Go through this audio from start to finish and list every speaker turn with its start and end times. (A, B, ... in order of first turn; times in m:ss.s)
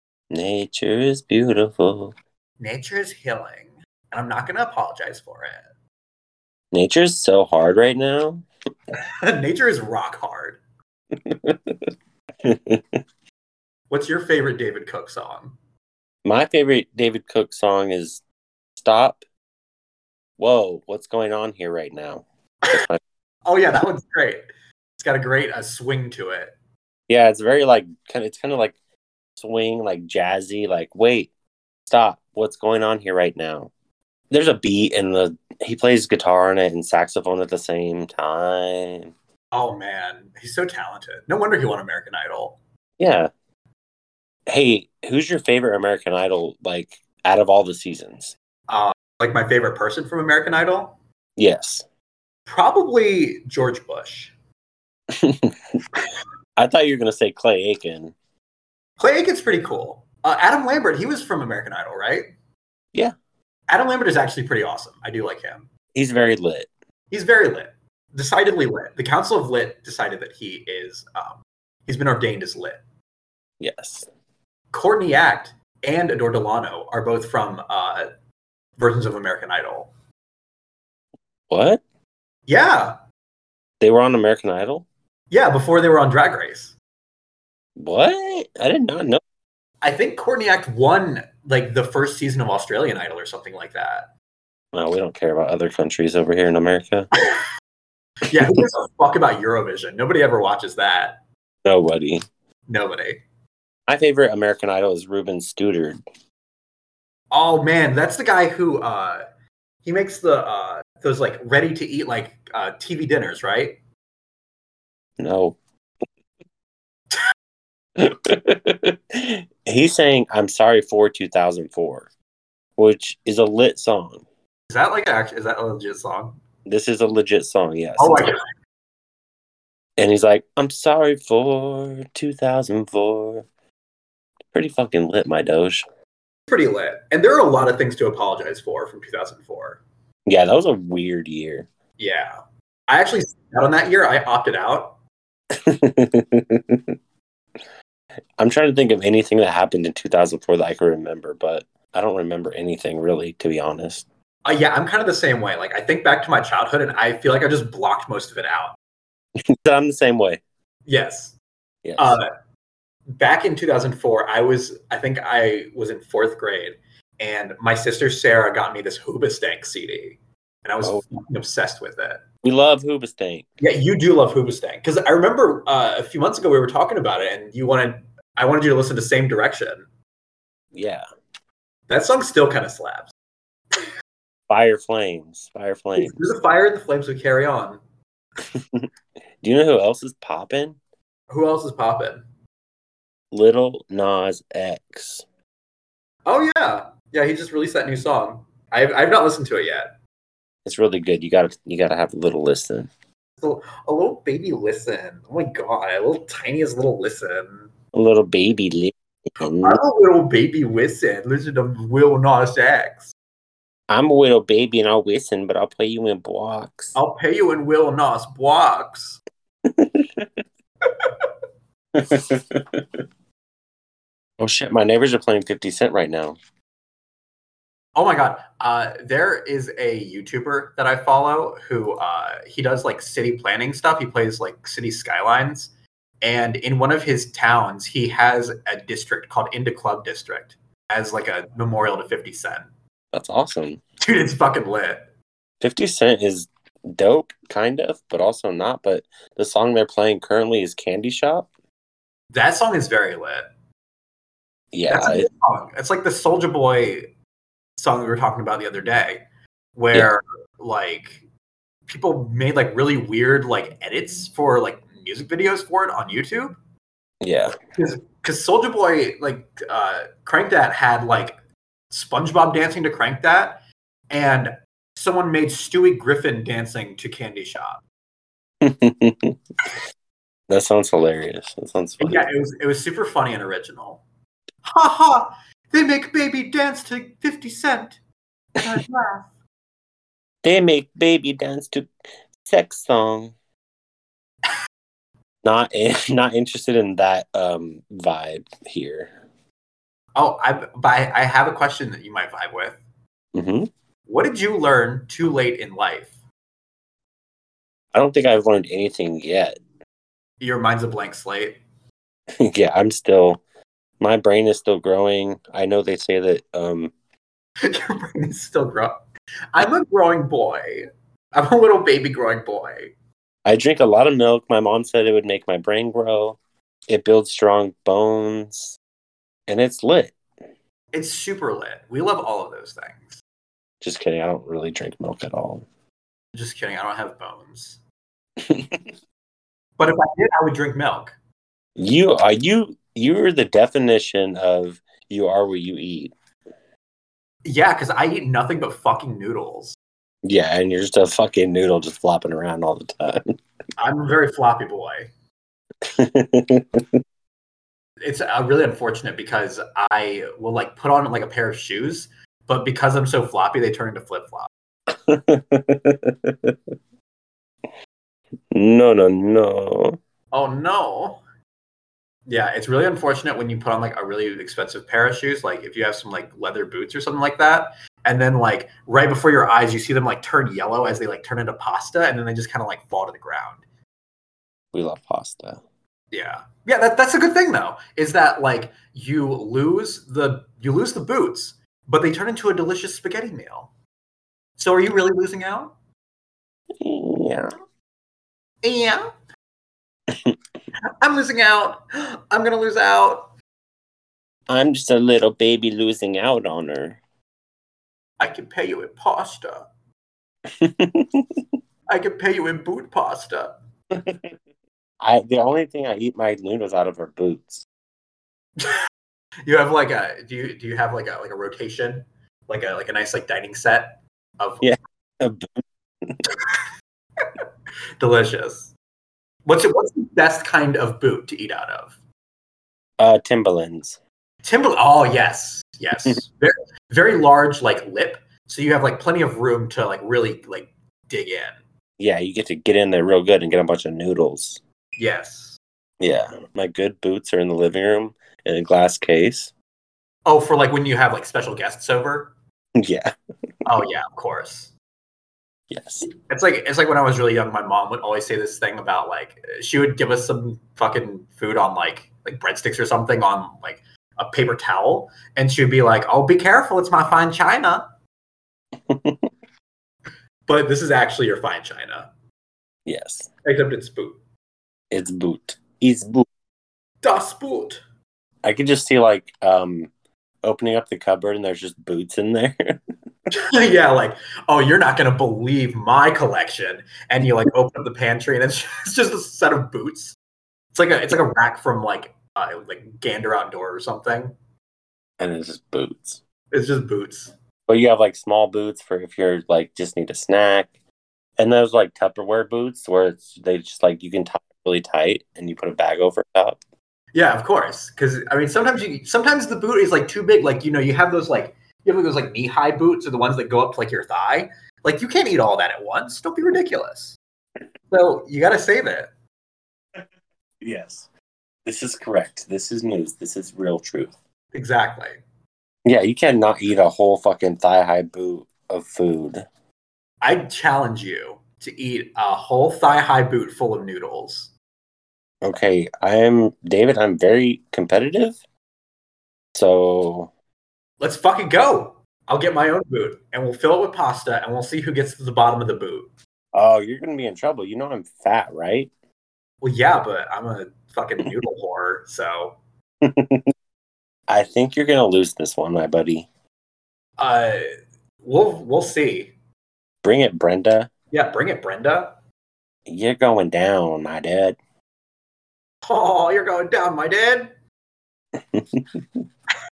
0:00.3-0:02.2 A
0:02.6-0:05.7 B
0:06.7-0:08.5 A
0:09.2-0:10.6 B
0:11.3-0:11.8 A
0:12.4-0:13.0 A
0:13.9-0:15.6 B
0:16.2-0:18.2 A
0:18.8-0:19.2 A
0:20.4-0:23.0 A
0:23.5-0:24.4 B
0:25.0-0:26.6 B
0:27.1-0:28.8 A
0:29.4-0:31.3 A
0:31.9-0:33.7 A
0:34.3-0:39.1 A
0:39.5-0:42.6 B
0:43.0-0:43.3 A
0:44.5-0:48.4 A
0:48.7-0:51.0 B
0:51.4-0:51.8 A
0:52.5-0:54.3 B
0:55.2-0:55.5 A
0:56.6-0:58.2 A
0:59.0-1:02.3 B
1:03.7-1:05.7 B
1:06.0-1:06.7 A
1:07.1-1:12.8 B
1:13.6-1:14.1 A
1:14.7-1:18.1 B
1:18.8-1:19.9 B
1:21.5-1:21.8 A
1:22.5-1:23.0 B
1:23.8-1:24.9 A
1:25.3-1:26.8 B
1:27.8-1:29.2 A
1:29.8-1:34.1 B
1:34.7-1:37.1 A
1:38.2-1:41.2 B
1:41.6-1:42.2 A
1:42.7-1:43.2 B
1:43.9-1:46.0 A
1:47.3-1:49.2 B
1:49.8-1:53.8 B
1:55.2-1:55.6 A
1:58.0-2:02.1 A
2:02.8-2:04.2 A
2:04.7-2:06.4 B
2:06.7-2:08.3 A
2:08.0-2:08.4 B
2:10.0-2:13.5 A
2:14.5-2:15.8 A
2:16.5-2:19.8 B
2:20.3-2:21.7 A
2:22.0-2:25.0 B
2:25.7-2:26.8 A
2:28.4-2:34.1 A
2:34.4-2:38.8 B
2:39.6-2:40.4 A
2:40.9-2:41.4 B
2:41.8-2:42.2 A
2:42.0-2:42.3 B
2:43.2-2:52.2 B
2:52.4-2:53.5 A
2:53.6-2:59.9 B
3:00.7-3:01.0 A
3:01.9-3:03.1 B
3:04.5-3:06.2 A
3:06.0-3:07.8 B
3:09.4-3:10.8 A
3:11.3-3:12.2 B
3:13.3-3:15.2 A
3:16.3-3:20.0 B
3:20.6-3:22.9 A
3:23.4-3:27.7 B
3:27.9-3:29.8 A
3:29.4-3:33.1 B
3:33.9-3:37.0 A
3:37.0-3:39.2 B
3:39.7-3:40.3 A
3:42.0-3:43.0 A
3:44.4-3:46.4 A
3:48.0-3:55.7 B
3:56.2-4:02.6 B
4:03.1-4:03.8 A
4:04.0-4:05.0 B
4:05.6-4:11.5 A
4:12.3-4:13.5 B
4:14.7-4:15.3 A
4:14.9-4:17.1 B
4:17.8-4:19.2 B
4:19.8-4:21.2 B
4:21.9-4:26.6 B
4:27.2-4:27.5 A
4:27.8-4:31.4 B
4:31.9-4:37.8 B
4:38.6-4:39.7 A
4:40.5-4:42.3 A
4:42.0-4:44.0 B
4:44.6-4:48.0 B
4:48.5-4:49.3 B
4:50.4-4:51.9 A
4:52.4-4:53.3 A
4:55.4-4:59.1 A
5:00.2-5:02.8 B
5:03.4-5:03.7 A
5:04.1-5:06.1 B
5:07.9-5:09.6 A
5:10.4-5:11.6 B
5:12.4-5:13.4 A
5:14.0-5:16.9 A
5:17.7-5:19.0 B
5:19.5-5:22.9 B
5:23.5-5:28.8 A
5:29.5-5:30.2 A
5:30.9-5:33.2 B
5:33.8-5:35.6 A
5:36.3-5:37.8 B
5:38.5-5:38.8 A
5:39.8-5:41.1 B
5:41.8-5:46.1 A
5:47.4-5:49.8 B
5:50.2-5:53.2 A
5:53.8-5:55.1 B
5:56.0-5:57.0 A
5:58.0-6:04.5 B
6:04.9-6:06.6 A
6:08.5-6:10.0 A
6:10.3-6:11.2 B
6:12.3-6:23.6 B
6:24.7-6:25.6 A
6:26.1-6:33.7 B
6:34.6-6:35.7 B
6:36.8-6:37.5 A
6:38.6-6:39.0 B
6:41.0-6:43.3 B
6:44.5-6:47.0 A
6:48.2-6:49.7 B
6:50.6-6:51.3 A
6:51.9-6:53.6 B
6:54.0-6:54.3 A
6:55.0-6:57.7 A
6:59.5-7:04.7 B
7:04.6-7:06.2 A
7:08.0-7:08.7 B
7:09.5-7:12.0 B
7:13.0-7:14.0 A
7:14.4-7:21.6 B
7:22.0-7:24.6 A
7:25.0-7:25.6 B
7:26.0-7:29.5 A
7:30.3-7:32.3 B
7:32.8-7:33.1 A
7:33.7-7:34.7 B
7:35.7-7:36.1 A
7:36.0-7:47.9 B
7:48.9-7:49.3 A
7:50.5-7:52.1 B
7:52.9-7:53.3 A
7:53.4-7:54.2 B
7:54.9-7:56.2 A
7:57.0-7:57.8 B
7:58.4-7:59.9 A
8:00.4-8:02.8 A
8:03.4-8:10.2 B
8:10.7-8:14.3 B
8:15.2-8:16.2 A
8:16.5-8:17.3 B
8:17.7-8:20.7 A
8:21.4-8:26.6 A
8:27.1-8:37.2 B
8:37.9-8:39.1 B
8:40.6-8:41.1 A
8:41.7-8:44.1 A
8:44.5-8:45.2 B
8:45.9-8:49.4 A
8:50.2-8:54.5 B
8:55.4-8:58.4 A
8:59.6-9:00.3 A
9:01.0-9:06.1 B
9:06.5-9:08.9 A
9:09.6-9:12.6 B
9:13.0-9:13.5 A
9:14.3-9:16.3 A
9:17.2-9:17.6 B
9:18.2-9:19.4 B
9:20.0-9:20.9 A
9:21.1-9:22.2 B
9:22.9-9:24.6 A
9:25.8-9:27.5 B
9:28.5-9:29.0 A